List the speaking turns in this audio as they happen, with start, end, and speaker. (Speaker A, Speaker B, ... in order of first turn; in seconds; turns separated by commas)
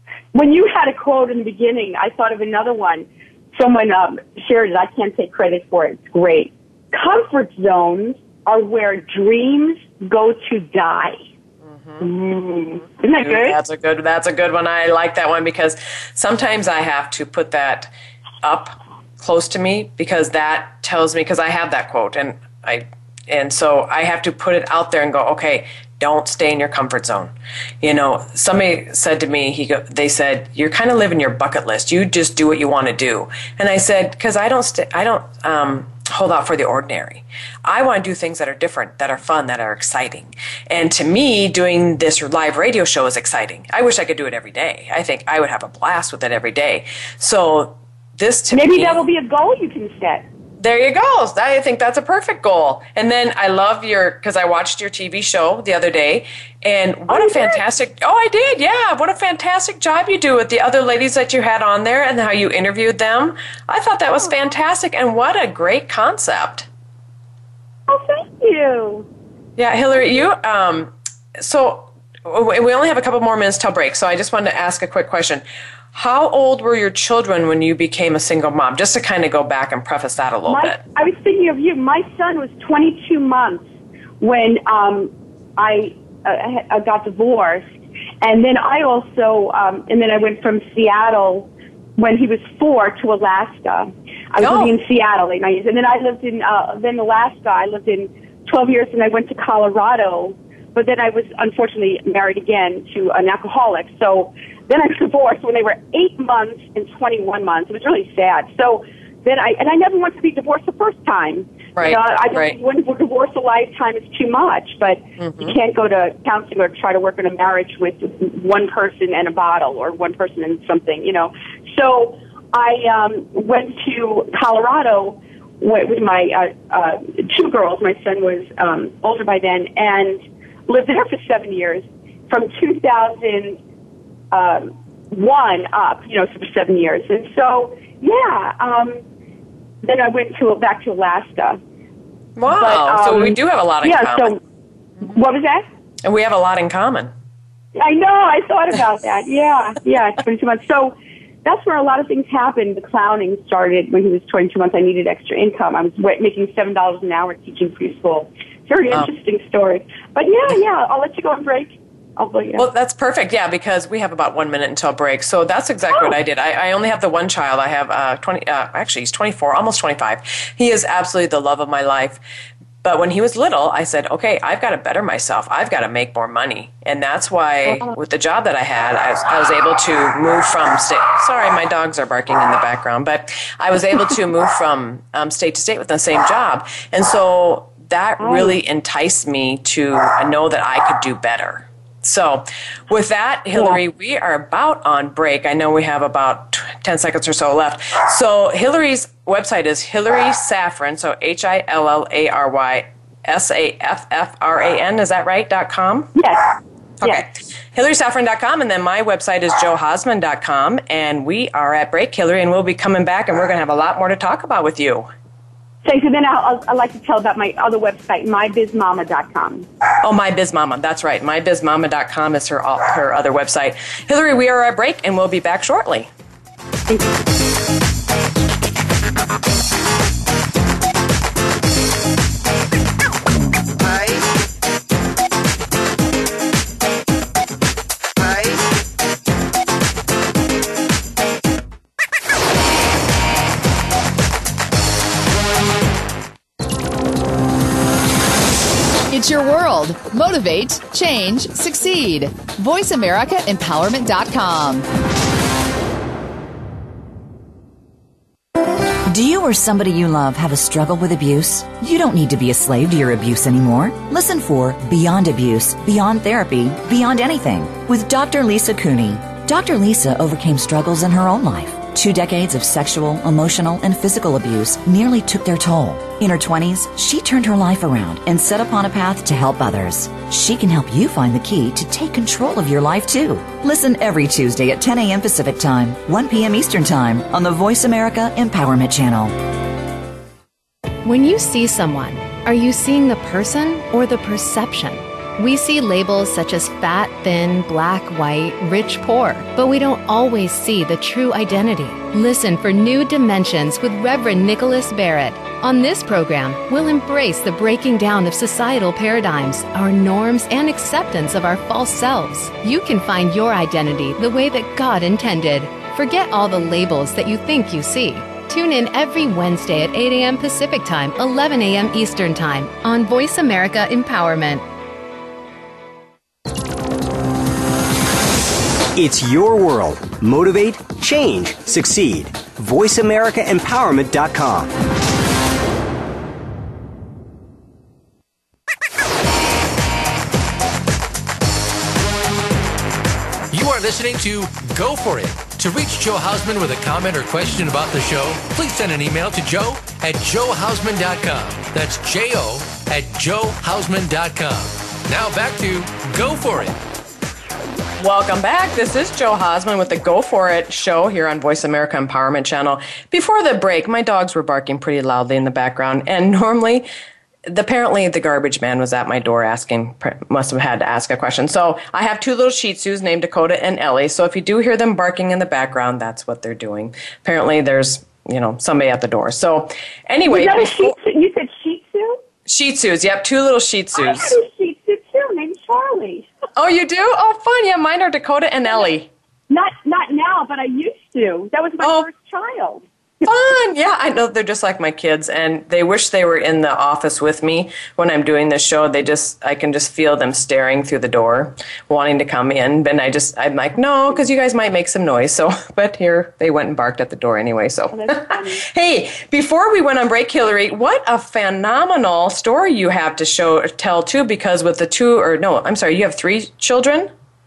Speaker A: 0.3-11.2, Speaker B: 11.6-12.1, Speaker A: 12.0-13.6, Speaker B: 13.2-17.9, Speaker B: 18.4-49.0, Speaker A: 48.5-50.2, Speaker B: 50.6-66.7, Speaker A: 57.1-57.6, Speaker A: 67.9-69.1, Speaker B: 69.6-80.8, Speaker A: 80.5-83.7, Speaker A: 84.2-87.7, Speaker A: 88.2-133.6, Speaker B: 94.4-94.7, Speaker B: 111.8-112.6, Speaker B: 115.2-115.6, Speaker A: 134.3-139.0, Speaker A: 139.8-141.6, Speaker B: 142.4-144.4, Speaker A: 142.5-144.4, Speaker A: 145.0-145.7, Speaker B: 146.0-147.1, Speaker A: 147.8-162.7, Speaker B: 162.6-172.2, Speaker B: 172.8-206.1, Speaker A: 177.7-177.9, Speaker A: 188.2-188.6, Speaker A: 206.2-207.3, Speaker B: 207.0-215.1, Speaker A: 215.8-219.7, Speaker B: 220.0-226.1, Speaker C: 249.1-254.9, Speaker D: 259.1-289.4, Speaker E: 291.0-324.6, Speaker F: 328.9-334.7, Speaker G: 343.5-356.8, Speaker B: 358.0-366.9, Speaker B: 367.5-380.9, Speaker A: 380.3-382.2, Speaker B: 382.5-384.4, Speaker A: 384.0-386.3, Speaker B: 386.6-389.1, Speaker A: 389.5-393.3, Speaker B: 391.8-392.1, Speaker B: 393.2-417.1, Speaker A: 407.9-408.6